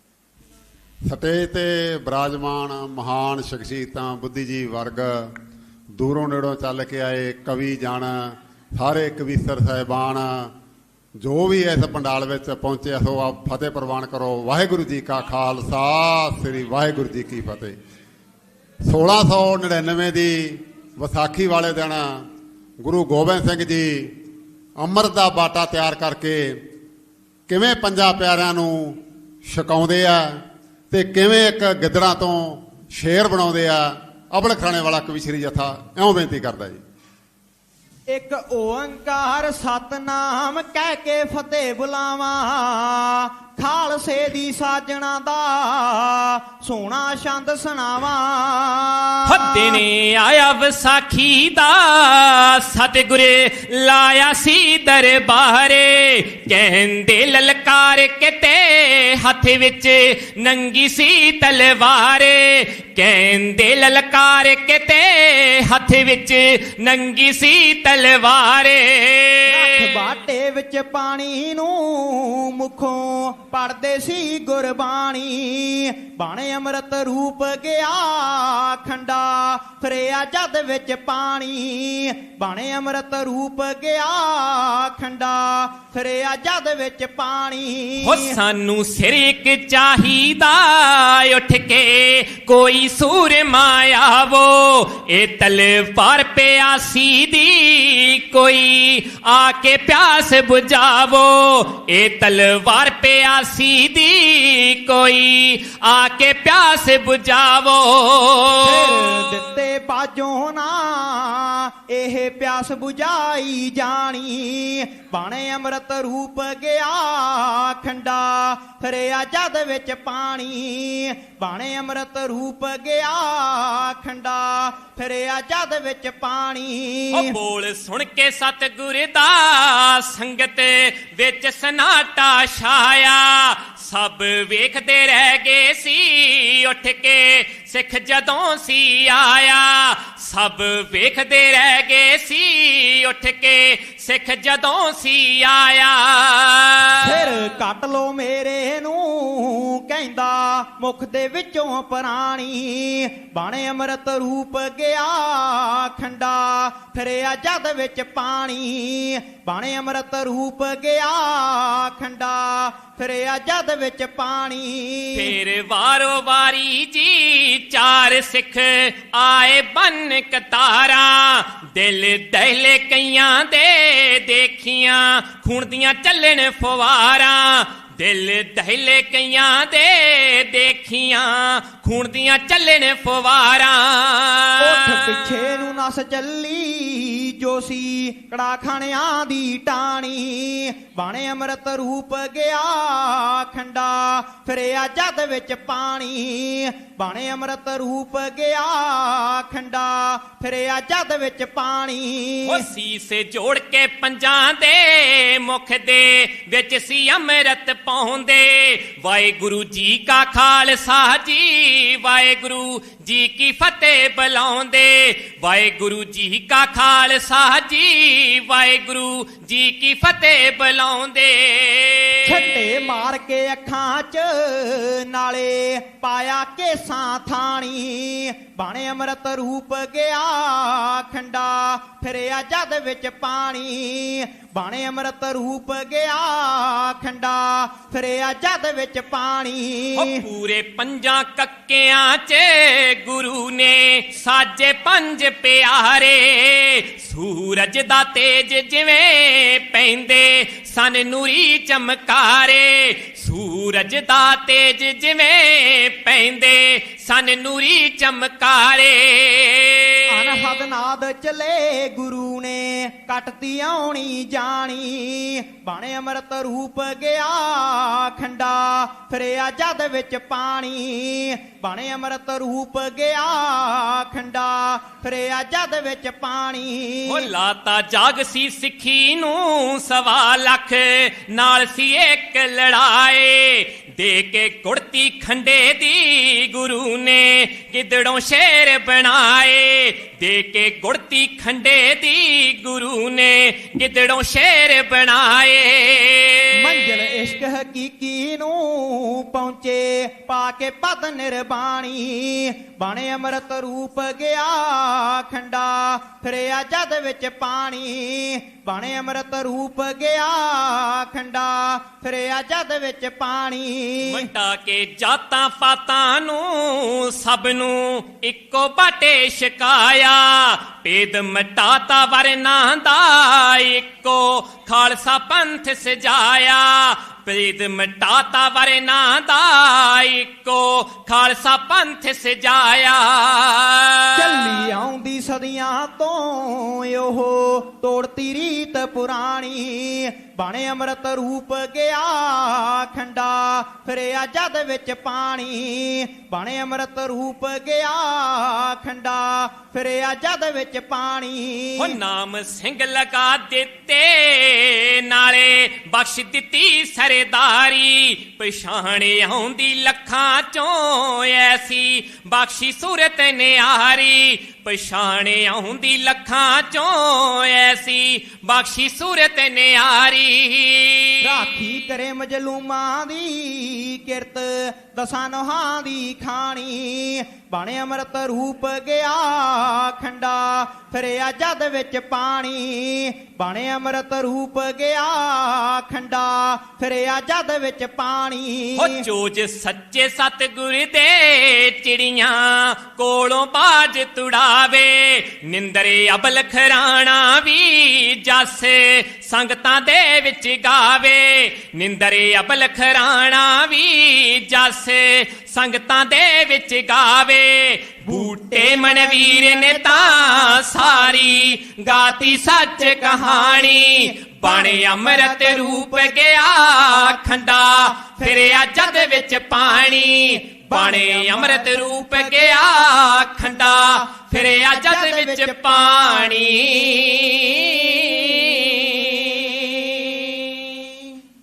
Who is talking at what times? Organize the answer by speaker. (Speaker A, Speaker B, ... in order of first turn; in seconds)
Speaker A: 1.1-5.3, 6.0-10.5, 11.2-17.7, 18.8-22.2, 22.8-24.1, 24.8-26.6, 27.5-30.4, 30.9-36.8
Speaker B: 38.1-49.8, 69.5-88.4, 108.6-127.3, 146.9-165.3, 184.6-202.6, 222.2-240.2, 260.1-277.3, 296.5-314.3, 334.1-352.0, 371.2-389.0, 408.1-411.1, 412.8-416.2, 417.7-419.4, 420.5-426.4
Speaker C: 49.2-70.0, 88.0-109.5, 127.1-147.3, 165.1-185.3, 202.4-222.8, 239.9-260.4, 277.1-296.8, 314.1-334.7, 351.8-371.4, 388.8-430.6